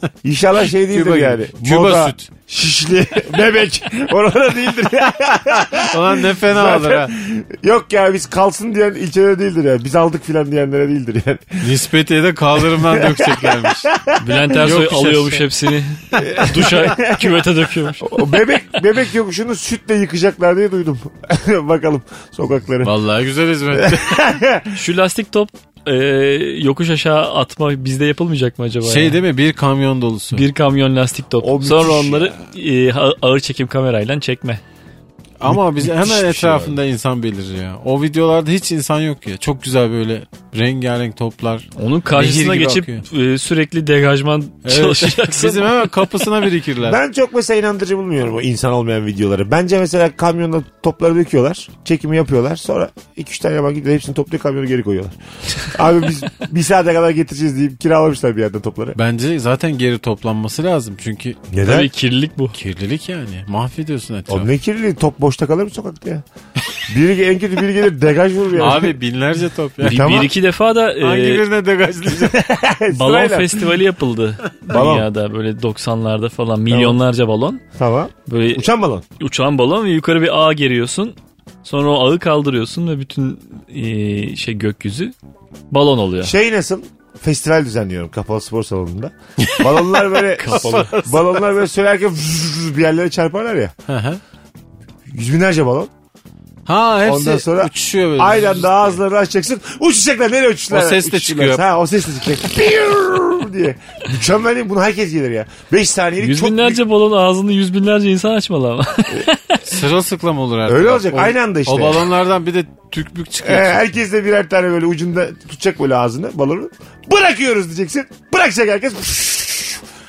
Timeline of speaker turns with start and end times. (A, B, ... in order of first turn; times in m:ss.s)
0:00.2-0:11.6 A
0:00.8-0:02.3 B
0:05.8-0:07.1 B
0:11.6-0:13.9 B
0:12.7-0:14.4 A
0:14.2-0:18.2 C
0:14.5-0:15.5 B
0:16.2-0:17.5 A
0:18.0-0:22.9 A
0:22.8-0:24.2 B
0:23.8-0:24.8 A
0:24.7-0:29.2 C
0:28.8-0:30.4 B
0:30.3-0:34.6 C
0:31.4-0:32.4 A
0:35.4-0:43.0 B
0:35.5-0:36.8 A
0:41.8-0:46.3 C
0:44.6-0:47.0 B
0:46.8-0:55.2 A
0:55.7-0:59.0 A
0:59.0-1:01.4 B
1:01.5-1:01.9 A
1:01.6-1:02.6 C
1:02.6-1:04.5 B
1:04.3-1:06.2 A
1:06.9-1:09.0 A
1:08.6-1:10.2 B
1:09.8-1:11.5 C
1:09.8-1:10.3 A
1:11.0-1:12.4 B
1:12.1-1:13.6 A
1:12.9-1:17.6 C
1:14.7-1:15.1 A
1:16.7-1:17.0 A
1:17.8-1:19.0 A
1:18.3-1:25.1 C
1:25.7-1:26.3 C
1:26.2-1:33.7 A
1:29.4-1:31.2 B
1:30.4-1:31.0 C
1:33.9-1:34.2 B
1:35.1-1:35.9 A
1:36.7-1:39.0 B
1:37.0-1:46.8 A
1:40.7-1:41.6 B
1:46.2-1:49.8 C
1:49.7-1:53.8 B
1:50.7-1:52.1 A
1:53.4-1:59.8 A